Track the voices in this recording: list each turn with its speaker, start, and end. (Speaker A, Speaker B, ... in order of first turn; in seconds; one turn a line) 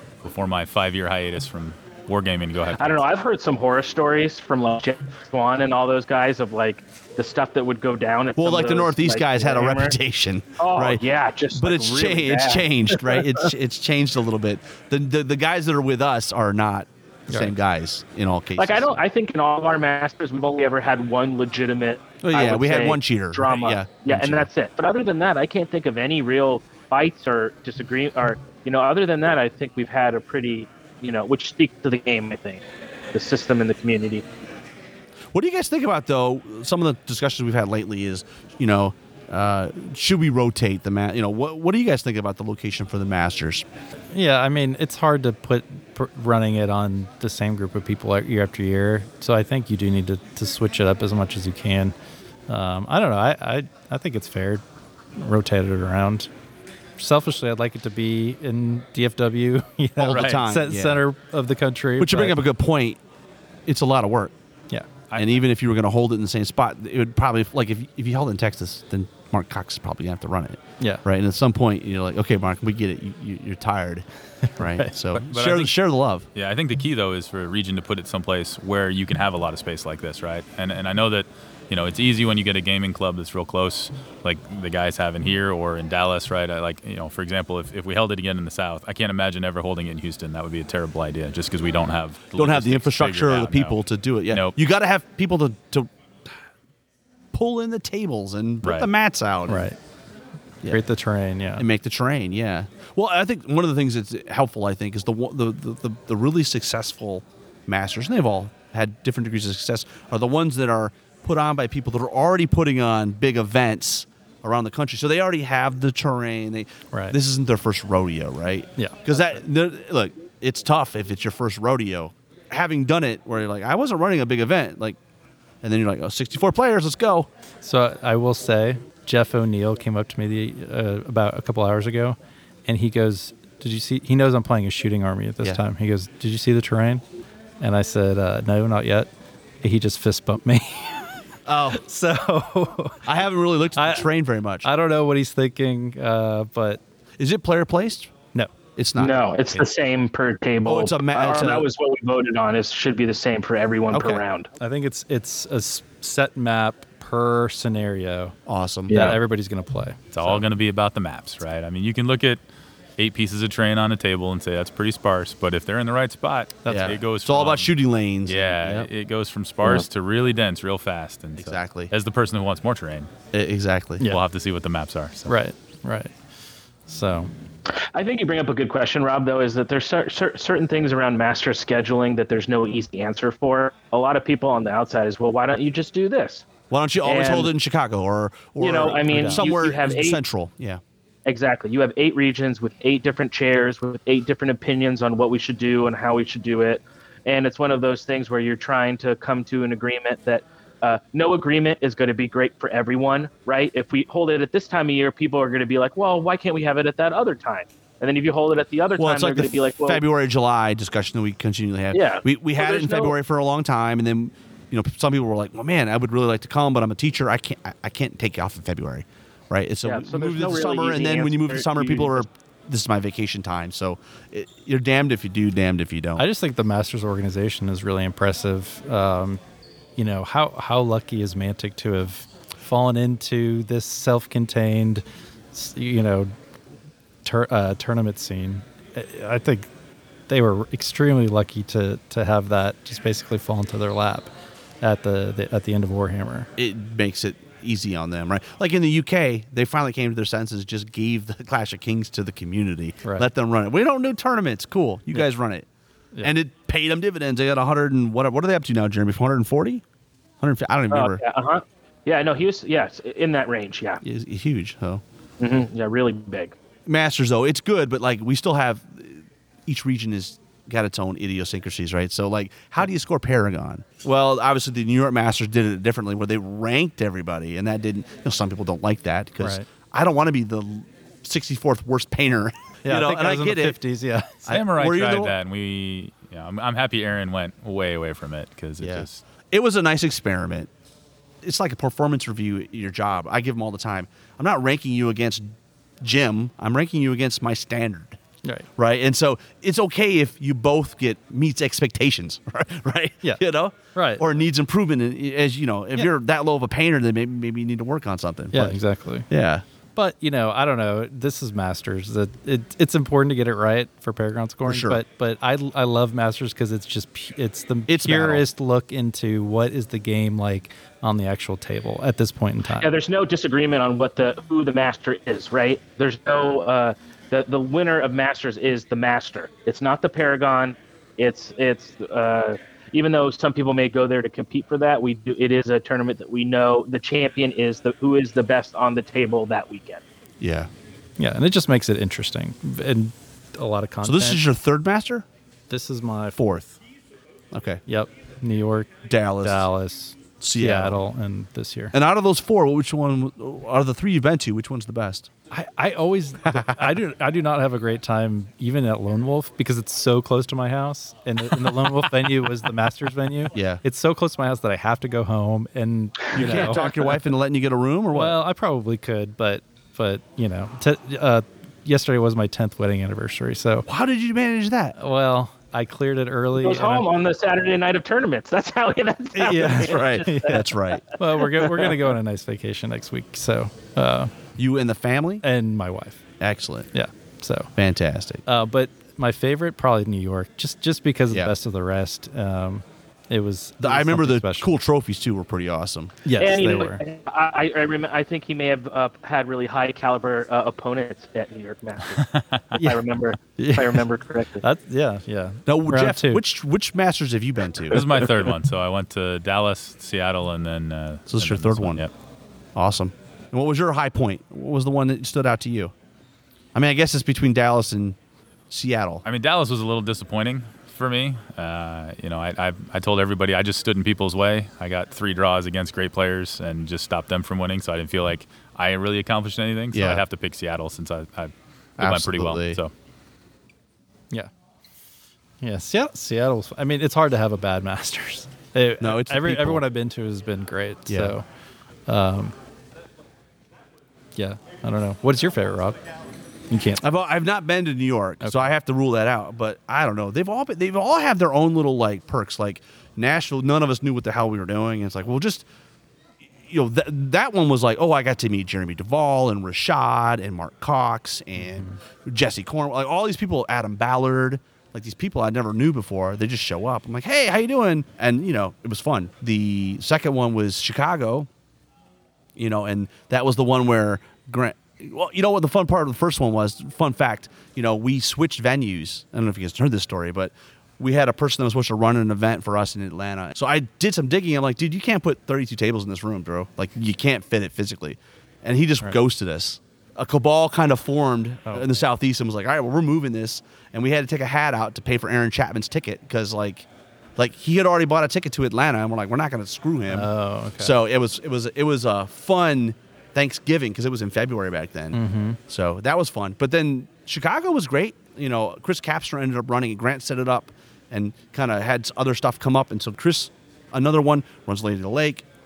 Speaker A: 0.2-3.1
Speaker B: 2.8-10.0
Speaker C: 8.4-19.0
Speaker B: 10.6-13.5
Speaker B: 18.6-34.2
Speaker C: 22.2-24.5
Speaker C: 35.3-43.7
Speaker D: 44.1-51.9
Speaker D: 52.5-54.6
Speaker D: 55.2-56.3
Speaker D: 57.0-62.4
Speaker C: 60.0-61.0
Speaker A: 60.1-60.4
Speaker C: 62.0-63.0
Speaker C: 63.7-64.3
Speaker C: 65.2-74.1
Speaker D: 74.5-75.0
Speaker C: 74.6-76.3
Speaker A: 75.2-75.8
Speaker A: 76.3-93.8
Speaker C: 92.3-95.9
Speaker A: 94.3-94.6
Speaker C: 97.3-99.7
Speaker A: 98.6-98.9
Speaker D: 99.5-99.8
Speaker D: 100.7-101.7
Speaker C: 101.6-125.0
Speaker D: 118.8-119.0
Speaker C: 125.6-127.3
Speaker D: 127.6-137.0
Speaker D: 137.6-139.1
Speaker D: 139.6-141.1
Speaker C: 141.5-141.8
Speaker D: 141.7-143.1
Speaker C: 143.1-144.7
Speaker D: 143.8-144.1
Speaker D: 144.6-146.8
Speaker C: 147.2-148.1
Speaker C: 148.8-149.7
Speaker B: 149.0-154.5
Speaker C: 150.6-151.7
Speaker C: 153.9-154.2
Speaker D: 154.6-158.3
Speaker C: 158.5-159.1
Speaker B: 158.9-159.2
Speaker D: 158.9-160.4
Speaker A: 160.1-162.4
Speaker A: 163.0-167.7
Speaker D: 166.7-166.9
Speaker C: 166.7-168.9
Speaker A: 168.3-173.1
Speaker C: 171.4-171.9
Speaker C: 173.3-174.1
Speaker A: 174.1-175.3
Speaker D: 175.3-176.1
Speaker D: 176.9-177.3
Speaker B: 177.9-186.5
Speaker C: 186.7-190.8
Speaker B: 187.0-187.5
Speaker B: 188.6-190.2
Speaker D: 189.1-189.5
Speaker B: 191.3-210.0
Speaker C: 209.0-226.2
Speaker B: 211.9-213.2
Speaker B: 219.8-222.3
Speaker D: 226.2-229.4
Speaker D: 230.0-236.3
Speaker D: 237.2-239.7
Speaker D: 240.3-244.3
Speaker D: 244.8-246.5
Speaker C: 246.6-255.7
Speaker C: 256.2-259.8
Speaker C: 260.4-261.2
Speaker B: 260.9-264.0
Speaker C: 264.0-265.0
Speaker B: 265.4-266.6
Speaker C: 266.9-283.8
Speaker D: 279.4-279.7
Speaker D: 282.8-284.4
Speaker C: 284.5-285.4
Speaker A: 284.5-289.2
Speaker C: 288.8-290.7
Speaker C: 291.4-298.2
Speaker C: 298.8-309.6
Speaker D: 303.9-304.2
Speaker D: 308.5-309.3
Speaker D: 310.0-322.9
Speaker C: 314.6-315.0
Speaker C: 317.9-318.4
Speaker B: 322.8-340.0
Speaker C: 340.4-340.7
Speaker D: 341.2-344.4
Speaker C: 344.0-345.3
Speaker D: 345.7-346.7
Speaker C: 346.4-346.7
Speaker C: 347.5-347.8
Speaker D: 347.9-351.9
Speaker C: 349.1-349.7
Speaker C: 350.4-351.0
Speaker C: 351.9-355.3
Speaker D: 355.5-366.8
Speaker C: 356.5-356.8
Speaker C: 363.5-363.8
Speaker C: 366.3-368.4
Speaker D: 368.1-373.9
Speaker C: 373.9-374.9
Speaker D: 375.0-377.1
Speaker B: 376.6-380.6
Speaker D: 379.4-384.3
Speaker C: 379.6-381.1
Speaker B: 381.4-382.0
Speaker C: 384.6-385.4
Speaker D: 385.4-386.2
Speaker C: 386.4-386.9
Speaker D: 386.9-387.7
Speaker C: 387.8-388.4
Speaker D: 388.5-394.7
Speaker C: 393.8-396.2
Speaker D: 396.2-397.0
Speaker B: 396.4-404.6
Speaker A: 402.2-402.6
Speaker D: 402.8-403.0
Speaker D: 403.6-404.1
Speaker D: 404.6-406.4
Speaker C: 405.7-408.1
Speaker A: 407.9-412.1
Speaker C: 411.3-412.0
Speaker C: 412.8-415.9
Speaker C: 416.8-418.2
Speaker C: 418.7-419.2
Speaker A: 419.2-432.9
Speaker C: 429.9-430.2
Speaker C: 432.0-432.8
Speaker D: 435.6-441.4
Speaker C: 439.0-439.8
Speaker C: 441.1-441.3
Speaker D: 442.1-442.6
Speaker D: 444.4-446.0
Speaker D: 446.7-447.0
Speaker C: 447.0-455.7
Speaker D: 448.4-448.7
Speaker C: 456.7-471.5
Speaker C: 472.6-515.5
Speaker D: 491.7-492.0
Speaker D: 500.1-501.0
Speaker D: 505.1-505.6